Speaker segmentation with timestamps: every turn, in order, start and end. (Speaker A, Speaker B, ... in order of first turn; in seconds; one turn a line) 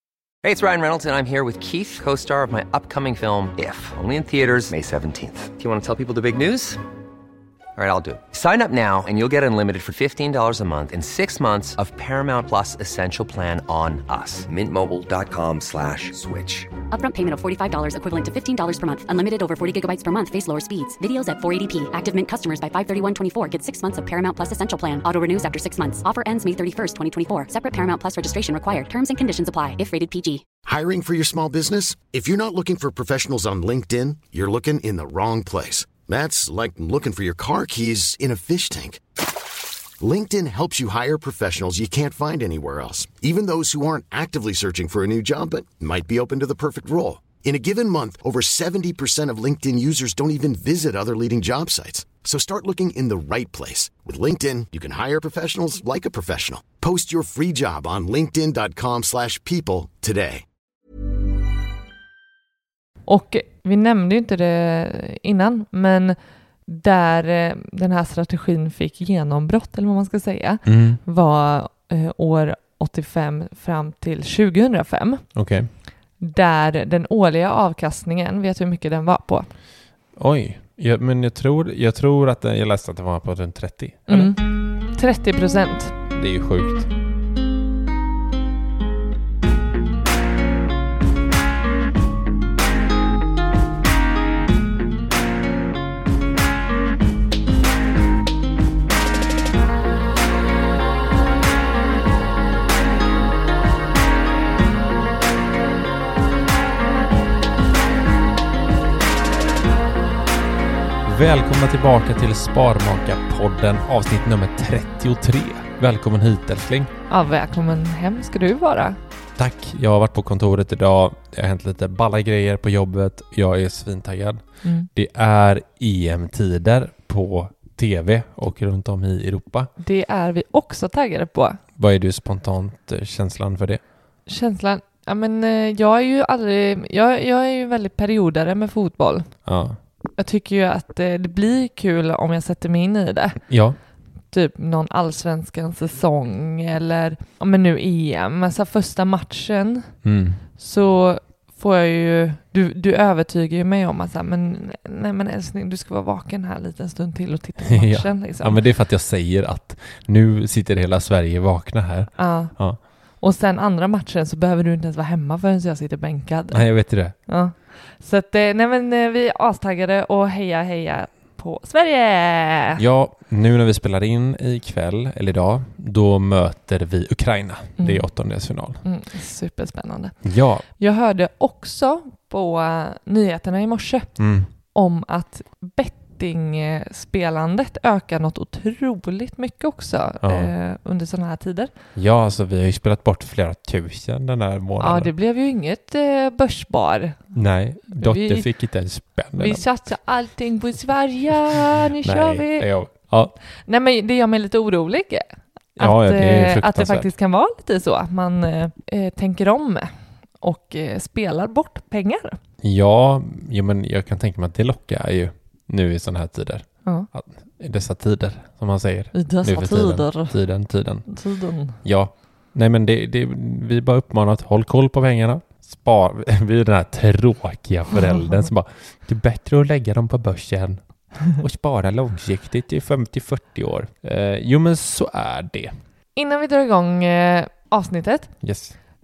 Speaker A: 0.4-6.8
Speaker A: 7.8-16.7
Speaker B: 16.9-30.4
Speaker C: 30.7-39.0
Speaker C: 40.0-60.4
Speaker D: 63.1-75.3
Speaker E: 70.7-71.0
Speaker E: 75.4-75.7
Speaker D: 76.2-79.5
Speaker E: 80.2-84.3
Speaker D: 84.1-86.0
Speaker E: 86.1-86.9
Speaker E: 111.0-116.9
Speaker D: 117.1-119.0
Speaker E: 119.4-129.7
Speaker D: 129.8-131.6
Speaker E: 131.8-133.8
Speaker D: 134.3-139.3
Speaker E: 139.5-139.8
Speaker D: 140.2-143.4
Speaker E: 143.5-143.8
Speaker D: 144.3-149.9
Speaker E: 150.0-150.4
Speaker D: 150.6-158.6
Speaker E: 157.7-162.8
Speaker D: 162.2-172.8
Speaker E: 166.5-167.2
Speaker E: 172.8-178.8
Speaker D: 177.8-191.7
Speaker E: 180.2-180.7
Speaker E: 184.2-184.5
Speaker E: 190.2-190.5
Speaker E: 191.9-195.1
Speaker D: 194.8-197.4
Speaker E: 197.3-199.7
Speaker D: 197.9-198.5
Speaker D: 199.4-202.7
Speaker E: 202.0-203.3
Speaker D: 203.7-205.2
Speaker D: 205.8-212.4
Speaker E: 205.8-207.1
Speaker E: 212.6-221.1
Speaker D: 219.1-220.4
Speaker D: 221.1-221.8
Speaker E: 221.8-235.8
Speaker D: 236.2-238.3
Speaker E: 238.4-238.8